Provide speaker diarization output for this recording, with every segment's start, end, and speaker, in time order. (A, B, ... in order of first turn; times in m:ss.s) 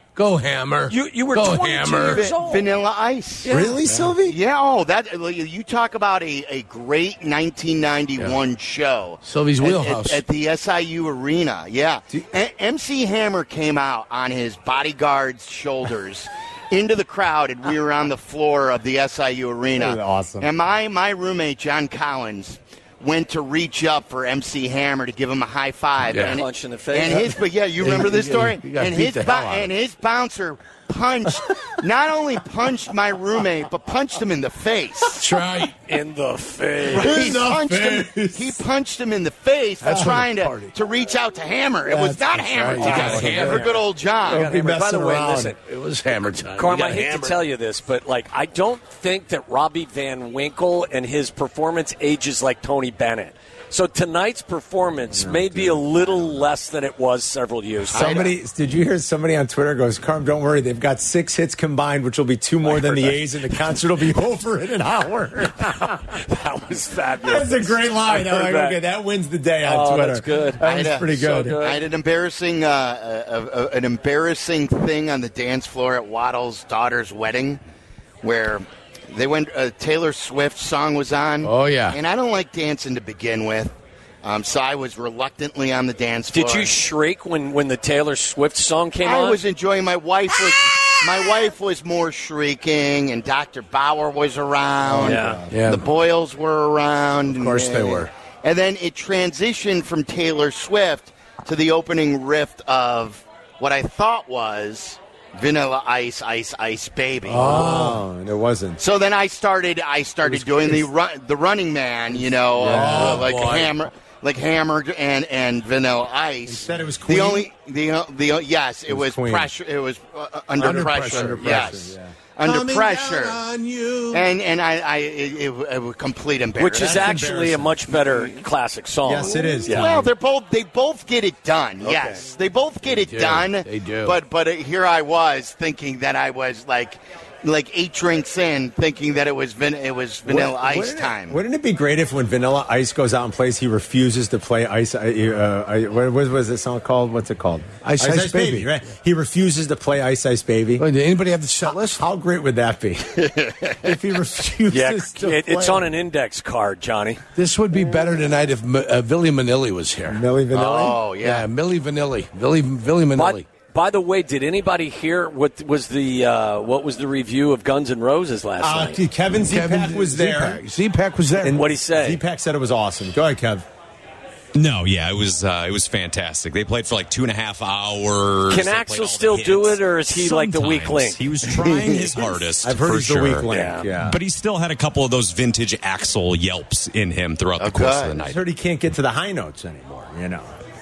0:00.2-0:02.2 A
0:00.9-0:02.7 B
0:02.0-0:03.5 C
0:03.4-0:03.8 B
0:03.5-0:04.4 D
0:04.2-0:35.2 C
0:09.2-0:10.2 A
0:19.8-0:20.5 D
0:26.1-0:26.4 A
0:26.2-0:27.3 B
0:27.1-0:29.7 A
0:35.2-0:35.8 A
0:35.9-0:37.2 B
0:36.9-0:38.6 D
0:36.9-0:44.5 C
0:39.8-0:40.7 A
0:41.9-0:43.7 D
0:42.5-0:43.7 A
0:44.2-0:45.5 D
0:44.3-0:45.6 B
0:45.6-0:47.4 A
0:46.6-0:58.2 B
0:55.2-0:56.4 D
0:57.9-1:06.0 D
0:57.9-0:58.3 C
1:02.6-1:03.2 B
1:05.6-1:08.8 B
1:07.2-1:11.6 D
1:09.6-1:11.8 B
1:10.6-1:17.6 C
1:18.2-1:26.8 C
1:21.4-1:22.0 A
1:26.3-1:29.4 B
1:29.0-1:47.7 C
1:34.9-1:35.8 A
1:34.9-1:35.5 D
1:35.0-1:35.4 B
1:37.3-1:38.1 A
1:47.3-1:48.0 A
1:47.4-1:48.8 D
1:48.8-2:03.4 C
1:50.2-1:50.9 D
1:52.6-1:53.7 A
1:52.6-1:53.3 D
1:56.5-1:57.5 D
1:58.9-1:59.5 D
2:00.6-2:01.7 A
2:00.6-2:02.1 D
2:02.4-2:04.3 A
2:04.1-2:07.2 C
2:06.6-2:09.9 B
2:06.7-2:07.8 D
2:08.0-2:08.3 C
2:09.0-2:10.1 D
2:09.2-2:21.4 C
2:11.8-2:12.2 B
2:13.1-2:14.2 A
2:20.3-2:30.8 D
2:27.8-2:28.8 A
2:30.8-2:32.0 A
2:31.6-2:35.9 D
2:33.2-2:33.9 C
2:34.7-2:37.2 B
2:37.4-2:40.2 A
2:40.1-2:41.0 D
2:40.5-2:41.5 C
2:41.2-2:43.4 A
2:43.2-2:49.0 B
2:48.6-2:50.6 D
2:49.4-2:51.6 A
2:51.4-2:53.7 D
2:51.5-2:52.2 B
2:54.6-3:03.5 E
2:58.5-3:01.2 B
3:01.4-3:04.2 D
3:01.6-3:02.1 C
3:03.5-3:03.9 B
3:04.0-3:08.4 E
3:07.6-3:08.2 C
3:08.2-3:10.6 D